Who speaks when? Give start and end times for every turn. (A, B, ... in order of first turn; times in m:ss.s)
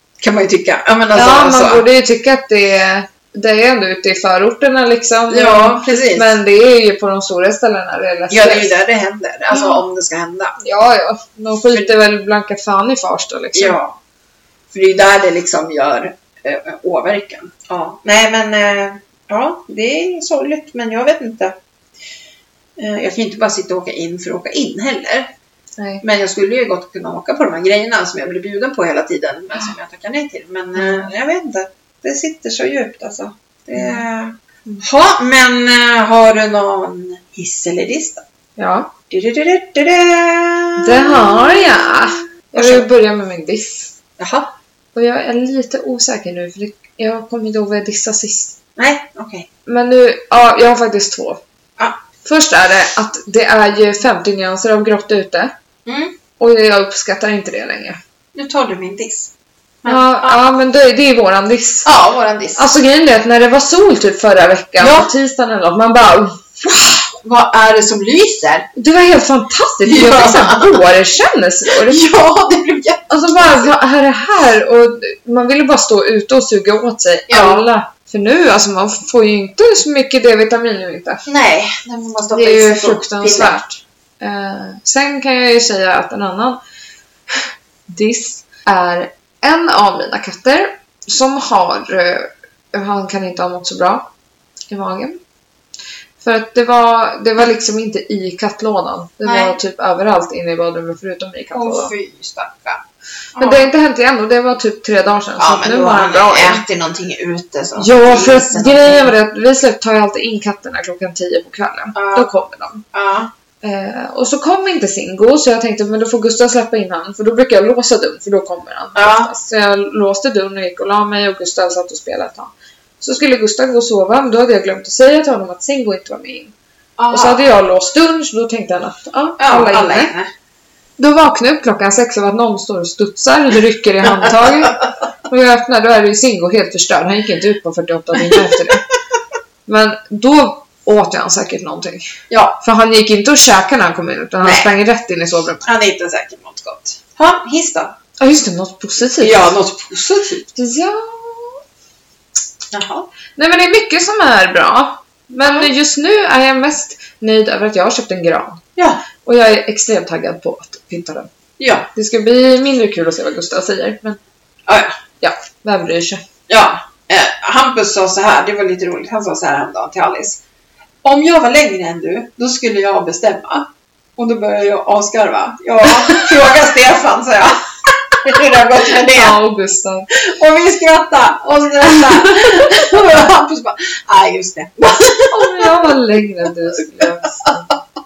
0:00.2-0:01.8 A
0:01.1-0:08.7 B
0:05.3-0:06.4 A
0:08.3-0:10.6 A
0:09.5-0:09.8 B
0:10.6-0:13.8 B
0:13.5-0:14.0 A
0:14.7-0:21.5 A
0:22.8-0:25.3 A
0:25.8-0:26.0 B
0:26.0-0:38.2 A
0:30.7-0:31.1 B
0:33.7-0:34.0 B
0:38.6-0:38.9 B
0:39.1-0:41.7 A
0:40.8-0:43.9 B
0:42.5-0:42.9 A
0:44.2-0:44.5 A
0:44.9-0:48.6 B
0:48.8-0:49.5 A
0:49.6-0:51.4 B
0:52.2-0:55.5 B
0:55.8-0:56.2 A
0:56.4-0:58.0 B
0:58.3-1:00.4 A
0:59.8-1:01.9 B
1:01.8-1:02.7 A
1:02.6-1:06.6 B
1:04.8-1:05.1 A
1:06.6-1:08.7 A
1:08.7-1:12.0 B
1:09.8-1:10.9 A
1:11.7-1:13.7 A
1:13.1-1:21.2 B
1:17.3-1:17.7 A
1:21.2-1:23.6 A
1:22.3-1:26.6 B
1:27.9-1:34.1 B
1:34.7-1:35.2 B
1:36.2-1:41.9 B
1:39.2-1:39.6 A
1:41.5-1:42.8 A
1:43.4-1:43.7 A
1:43.4-1:46.6 B
1:45.4-1:49.1 A
1:47.8-1:52.8 B
1:51.9-1:52.3 A
1:52.9-1:53.3 A
1:53.6-2:06.5 B
1:58.9-1:59.3 A
2:07.0-2:07.4 A
2:07.1-2:10.1 B
2:09.4-2:10.3 A
2:11.0-2:18.8 B
2:14.0-2:14.8 A
2:19.7-2:22.0 B
2:22.3-2:22.6 A
2:22.6-2:25.6 B
2:24.4-2:24.7 A
2:25.6-2:28.0 A
2:28.2-2:29.5 B
2:29.2-2:30.5 A
2:30.6-2:31.6 B
2:32.7-2:33.1 A
2:33.4-2:38.6 B
2:35.4-2:35.7 A
2:38.8-2:39.0 A
2:39.2-2:41.3 B
2:41.6-2:41.9 A
2:41.9-2:44.2 B
2:44.7-2:44.9 A
2:45.2-2:46.2 B
2:46.5-2:50.4 A
2:51.0-2:59.4 A
2:58.9-3:00.1 B
3:00.2-3:05.9 A
3:05.3-3:07.8 B